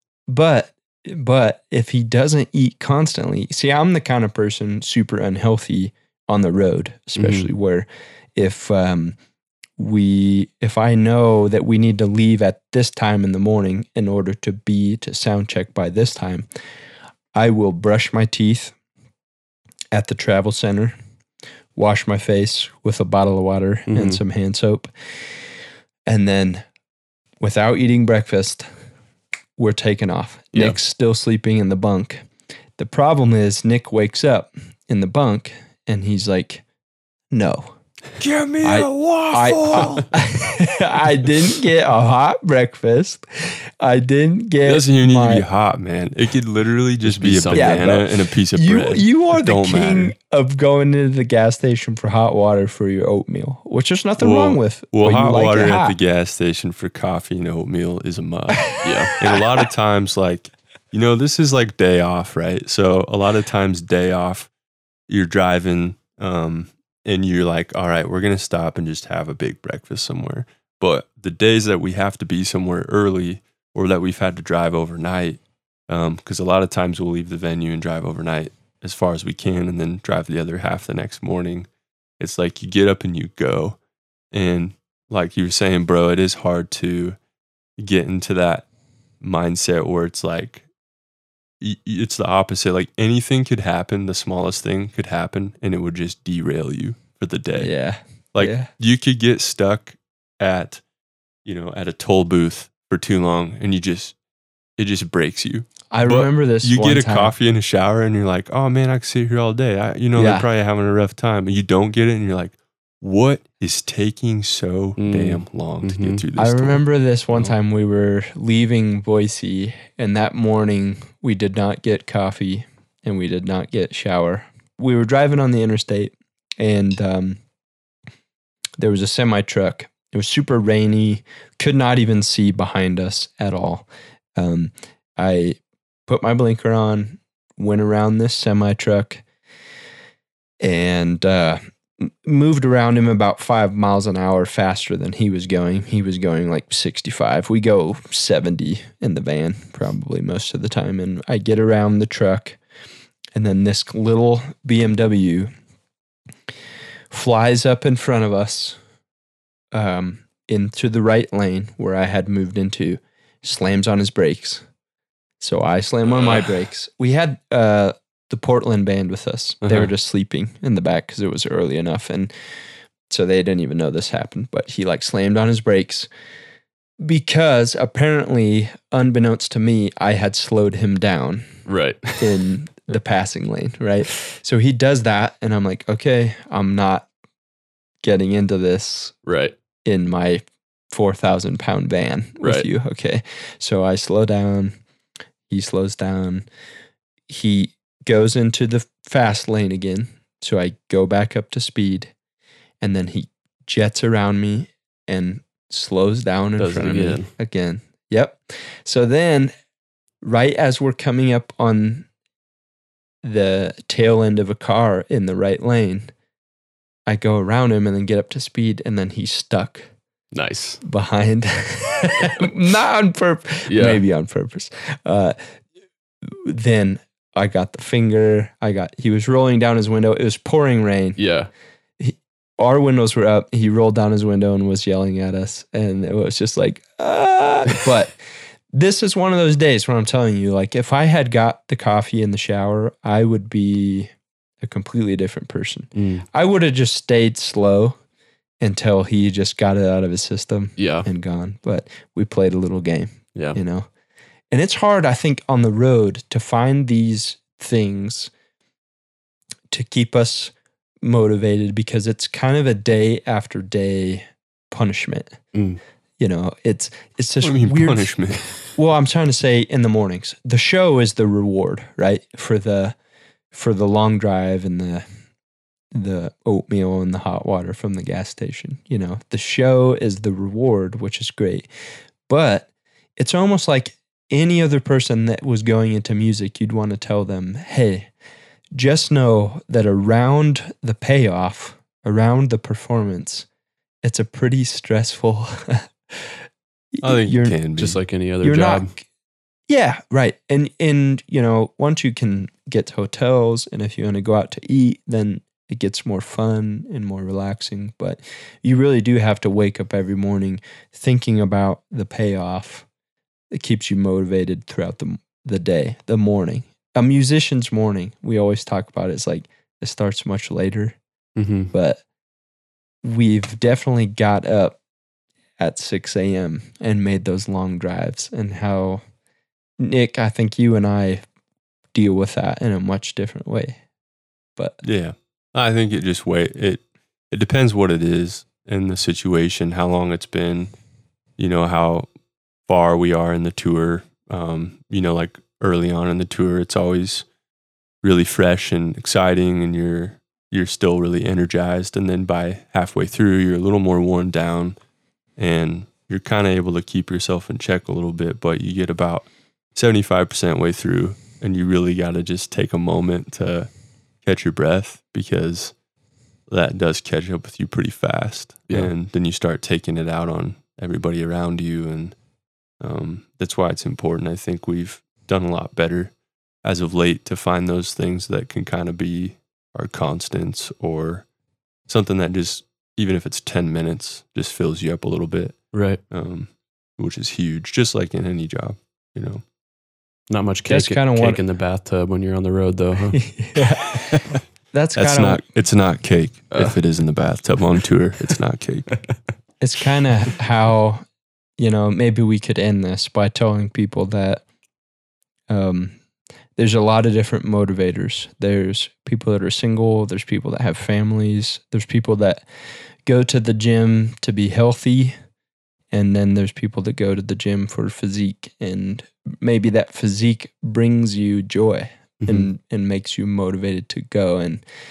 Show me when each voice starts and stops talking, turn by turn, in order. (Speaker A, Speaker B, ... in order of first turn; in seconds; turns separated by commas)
Speaker A: 0.3-9.2, Speaker B: 7.2-7.5, Speaker A: 9.8-16.5, Speaker A: 17.3-18.7, Speaker A: 19.9-20.9, Speaker A: 21.7-24.9, Speaker B: 23.9-24.2, Speaker A: 26.1-26.6, Speaker A: 27.4-28.6, Speaker A: 29.6-36.6, Speaker A: 37.3-37.7, Speaker C: 38.2-40.0, Speaker A: 38.6-45.5, Speaker C: 44.6-50.1, Speaker B: 47.0-48.0, Speaker A: 47.5-55.9, Speaker C: 54.2-64.5, Speaker A: 58.7-59.6, Speaker B: 58.8-59.1, Speaker C: 65.1-81.7, Speaker C: 82.2-83.8, Speaker C: 84.3-87.2, Speaker C: 87.8-88.7, Speaker C: 89.2-90.6, Speaker C: 91.6-97.7, Speaker A: 97.5-98.7, Speaker C: 98.3-100.8, Speaker C: 101.4-104.1, Speaker C: 104.8-116.8, Speaker A: 105.9-107.3, Speaker A: 110.2-110.5, Speaker B: 115.0-116.2, Speaker A: 116.3-127.4, Speaker A: 128.8-139.2, Speaker A: 140.6-152.6, Speaker A: 153.3-155.5, Speaker A: 157.1-158.8, Speaker A: 159.7-164.6, Speaker A: 165.4-172.3, Speaker B: 169.6-169.9, Speaker A: 173.1-176.1, Speaker A: 177.0-181.5, Speaker B: 181.7-182.4, Speaker A: 182.2-187.1, Speaker A: 188.0-189.1, Speaker B: 189.2-189.5, Speaker A: 189.8-194.8, Speaker B: 192.4-192.7, Speaker A: 195.5-196.4, Speaker A: 197.3-202.1, Speaker A: 202.8-209.5, Speaker B: 206.6-207.3, Speaker A: 210.2-212.1, Speaker A: 213.2-216.1, Speaker A: 217.1-219.9, Speaker B: 220.3-220.8, Speaker A: 220.8-225.4, Speaker B: 223.7-224.0, Speaker A: 226.2-231.2, Speaker B: 231.2-231.5, Speaker A: 232.0-238.2, Speaker A: 238.7-248.0, Speaker B: 245.9-246.2, Speaker A: 248.6-253.9, Speaker B: 250.8-251.1, Speaker A: 254.5-258.3, Speaker A: 259.7-265.4, Speaker B: 265.5-265.8, Speaker A: 266.2-268.1, Speaker C: 267.4-268.7, Speaker A: 268.8-272.9, Speaker A: 273.5-275.1, Speaker A: 275.9-281.7, Speaker A: 282.3-288.1, Speaker A: 288.7-293.5, Speaker A: 294.0-296.4, Speaker A: 296.9-297.6, Speaker C: 297.0-298.0, Speaker B: 297.8-298.9, Speaker A: 298.4-299.1, Speaker A: 299.7-312.9, Speaker A: 313.5-321.0, Speaker B: 321.4-321.7, Speaker A: 321.7-322.0, Speaker A: 323.0-324.8, Speaker A: 325.6-329.0, Speaker A: 329.8-331.2, Speaker A: 331.9-333.8, Speaker C: 334.8-340.7, Speaker C: 341.4-342.1, Speaker C: 342.7-347.2, Speaker C: 348.0-354.8, Speaker C: 355.4-363.7, Speaker C: 364.2-365.7, Speaker C: 366.5-372.1, Speaker C: 372.8-376.1, Speaker C: 376.6-381.2, Speaker C: 381.9-389.4, Speaker B: 385.7-386.0, Speaker B: 390.3-393.2, Speaker A: 390.7-391.4, Speaker A: 393.1-394.1, Speaker C: 394.1-394.4, Speaker A: 394.7-395.4, Speaker C: 395.0-399.1, Speaker A: 399.6-401.0, Speaker A: 401.6-404.4, Speaker A: 405.5-406.0, Speaker A: 406.6-412.4, Speaker A: 413.0-415.1, Speaker A: 415.9-424.6, Speaker B: 422.2-422.5